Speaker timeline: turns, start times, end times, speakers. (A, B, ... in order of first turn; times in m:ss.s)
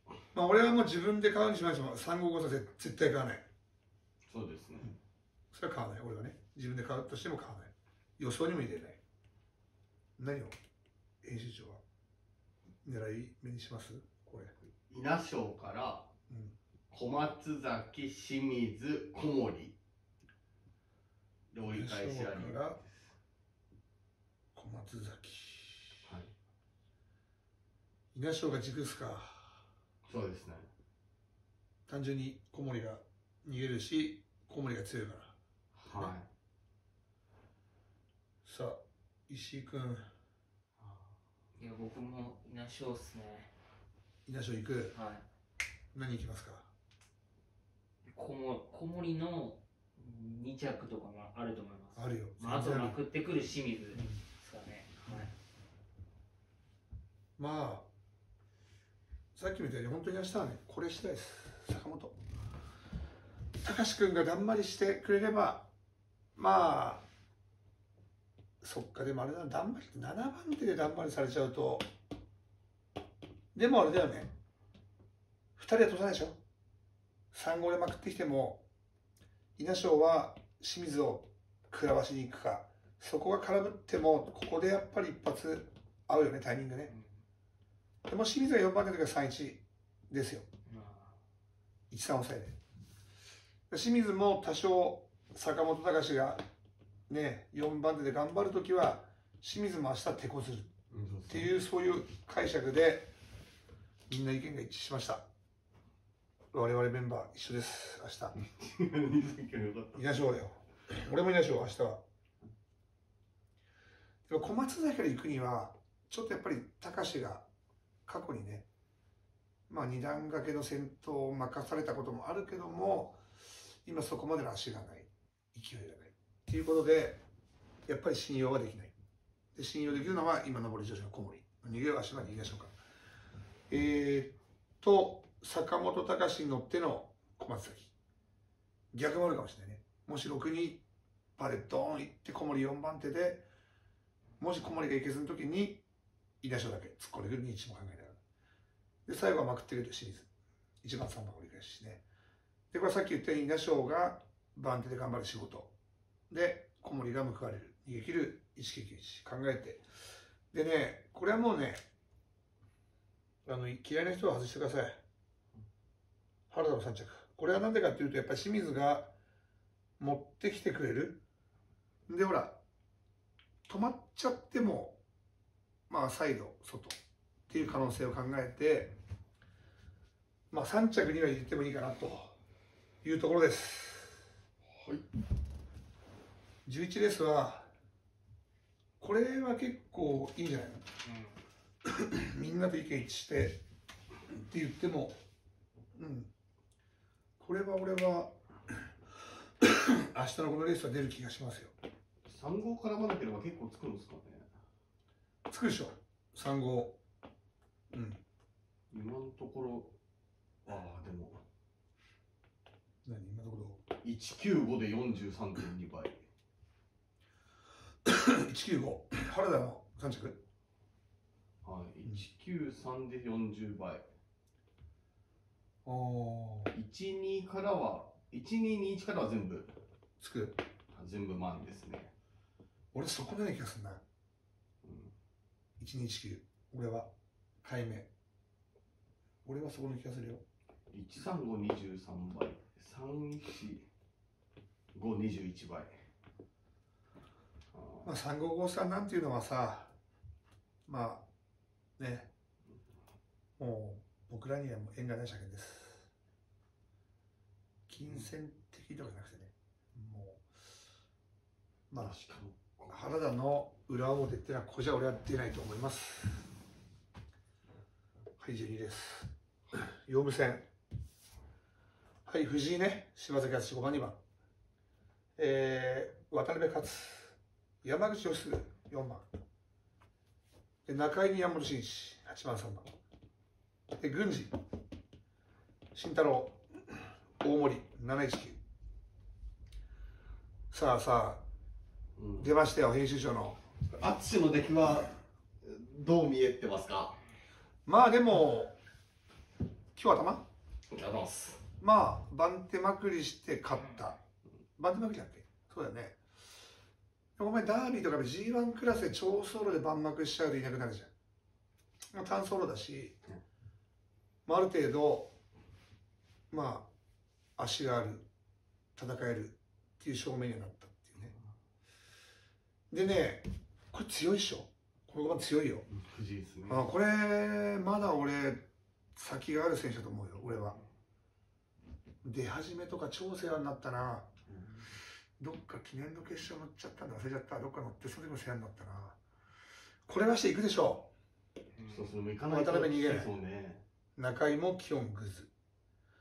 0:00.3-0:03.4 A
0:04.3-0:05.0 B
0:05.5-0:09.0 A
0:10.2-0:10.6 A
0:11.2-0:11.8 A
0:12.8-0:14.5 A
0:14.6-0:16.1 B
0:16.3-0:16.6 A
0:16.9-0:19.8 B
0:21.5-0:22.9 B
0:21.7-0:22.8 A
0:24.6-0:26.0 A
0:26.1-0:26.3 B
0:28.1-0:29.6 A
0:30.0-0:30.7 B
0:31.9-0:35.3 A
0:35.8-0:36.3 B
0:38.5-0:40.1 A
0:41.6-0:43.5 C
0:44.3-0:45.0 A
0:44.9-0:45.2 C
0:45.9-0:46.7 A
0:48.1-0:55.3 C
0:52.0-0:53.0 A
0:57.4-0:57.9 A
0:59.4-1:02.2 A
1:03.6-1:05.7 A
1:06.4-1:07.1 A
1:08.6-1:11.9 A
1:13.5-1:14.3 A
1:15.6-1:16.4 A
1:17.3-1:18.6 A
1:19.6-1:26.9 A
1:28.0-1:30.5 A
1:30.7-1:31.1 C
1:31.9-1:32.6 A
1:33.7-1:36.4 A
1:37.1-1:40.7 A
1:40.9-1:41.5 B
1:41.3-1:43.1 A
1:44.1-1:45.2 A
1:46.5-1:48.4 A
1:48.4-1:50.0 B
1:50.0-1:52.0 A
1:54.3-1:57.5 A
1:58.1-1:58.7 A
1:59.7-2:03.2 A
2:03.8-2:07.2 A
2:07.9-2:08.9 A
2:09.6-2:12.8 A
2:13.7-2:17.9 A
2:18.9-2:20.8 A
2:21.4-2:23.5 A
2:24.4-2:25.8 A
2:26.4-2:28.2 A
2:29.1-2:30.3 A
2:30.8-2:32.0 A
2:32.7-2:35.7 A
2:36.3-2:39.8 A
2:40.5-2:41.8 A
2:43.4-2:45.0 A
2:46.5-2:49.1 A
2:50.0-2:51.2 A
2:52.1-2:52.6 A
2:53.7-2:55.0 A
2:55.9-2:57.0 A
2:57.5-2:59.0 A
3:00.5-3:02.4 A
3:03.0-3:04.2 A
3:04.7-3:05.1 B
3:06.6-3:07.7 A
3:09.0-3:10.9 A
3:11.0-3:11.4 C
3:11.8-3:13.6 A
3:14.3-3:15.2 A
3:16.0-3:16.3 A
3:17.4-3:18.4 A
3:19.6-3:21.7 A
3:22.3-3:24.5 B
3:25.5-3:27.0 A
3:27.9-3:28.2 A
3:28.9-3:30.0 B
3:30.6-3:31.4 B
3:33.0-3:33.8 A
3:34.0-3:36.2 B
3:38.1-3:40.4 A
3:41.6-3:44.0 B
3:45.8-3:46.7 A
3:46.7-3:49.7 B
3:50.2-3:50.6 A
3:50.9-3:52.1 B
3:52.9-3:54.0 A
3:54.8-3:55.1 B
3:55.8-3:57.1 A
3:57.6-3:58.1 A
3:59.4-4:00.4 A
4:00.9-4:03.9 B
4:04.9-4:05.9 B
4:07.7-4:08.1 B
4:08.0-4:09.9 A
4:10.9-4:11.3 A
4:12.0-4:12.3 A
4:13.6-4:16.0 A
4:17.9-4:20.4 A
4:21.9-4:22.2 A
4:22.0-4:23.0 B
4:22.9-4:26.5 A
4:28.4-4:30.7 A
4:32.3-4:34.2 A
4:35.4-4:39.3 A
4:40.9-4:42.9 A
4:44.0-4:44.5 A
4:45.9-4:48.6 A
4:50.7-4:51.4 A
4:52.2-4:52.5 B
4:52.4-4:53.6 A
4:53.9-4:57.2 B
4:57.9-4:58.8 A
5:00.0-5:00.5 A
5:00.9-5:01.7 B
5:01.8-5:04.2 A
5:03.8-5:04.1 C
5:04.8-5:06.2 A
5:07.4-5:11.1 A
5:12.1-5:13.2 A
5:14.5-5:15.4 A
5:16.5-5:16.9 A
5:17.6-5:18.3 A
5:19.0-5:21.3 A
5:22.9-5:25.9 A
5:25.9-5:26.9 B
5:26.7-5:30.8 A
5:32.2-5:34.3 A
5:34.5-5:34.9 B
5:35.4-5:39.2 A
5:40.1-5:41.1 A
5:41.8-5:42.2 C
5:41.9-5:43.8 B
5:42.5-5:43.3 A
5:44.2-5:45.5 A